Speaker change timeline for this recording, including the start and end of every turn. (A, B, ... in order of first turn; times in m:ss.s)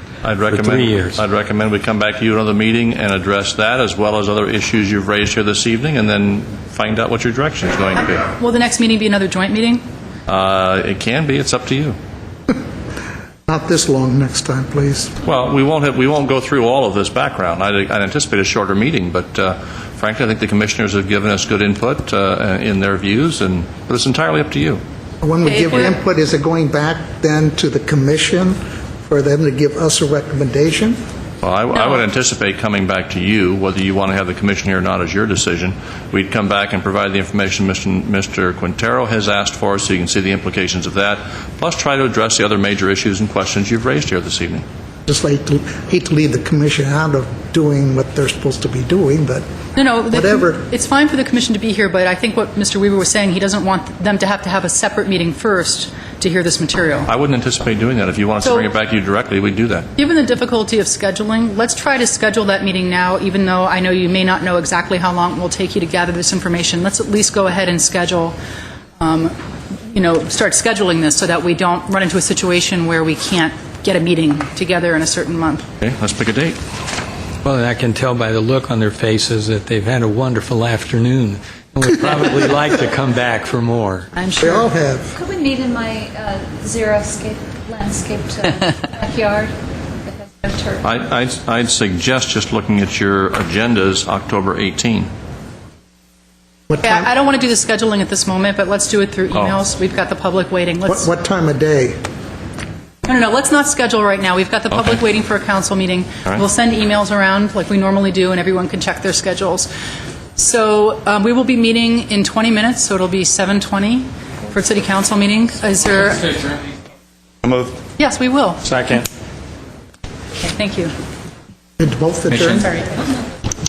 0:00.2-0:08.3 A
0:00.5-0:01.2 B
0:08.4-0:09.8 C
0:10.3-0:12.0 A
0:13.5-0:15.1 D
0:15.2-0:24.8 A
0:25.2-0:31.0 D
0:31.4-0:44.6 A
0:45.1-0:49.5 D
0:49.8-0:57.1 C
0:50.1-0:50.6 D
0:57.1-0:59.9 A
1:00.0-1:08.4 C
1:09.0-1:09.4 C
1:09.9-1:15.7 C
1:15.8-1:16.6 A
1:17.4-1:24.1 B
1:24.1-1:24.7 C
1:24.4-1:25.1 D
1:25.1-1:29.5 E
1:30.0-1:30.9 E
1:30.8-1:35.1 A
1:36.7-1:37.1 D
1:36.8-1:41.1 C
1:40.9-1:42.0 D
1:43.0-1:49.7 C
1:50.4-1:56.4 C
1:58.0-1:58.6 C
1:58.6-1:59.0 B
2:00.4-2:00.9 C
2:01.8-2:02.7 D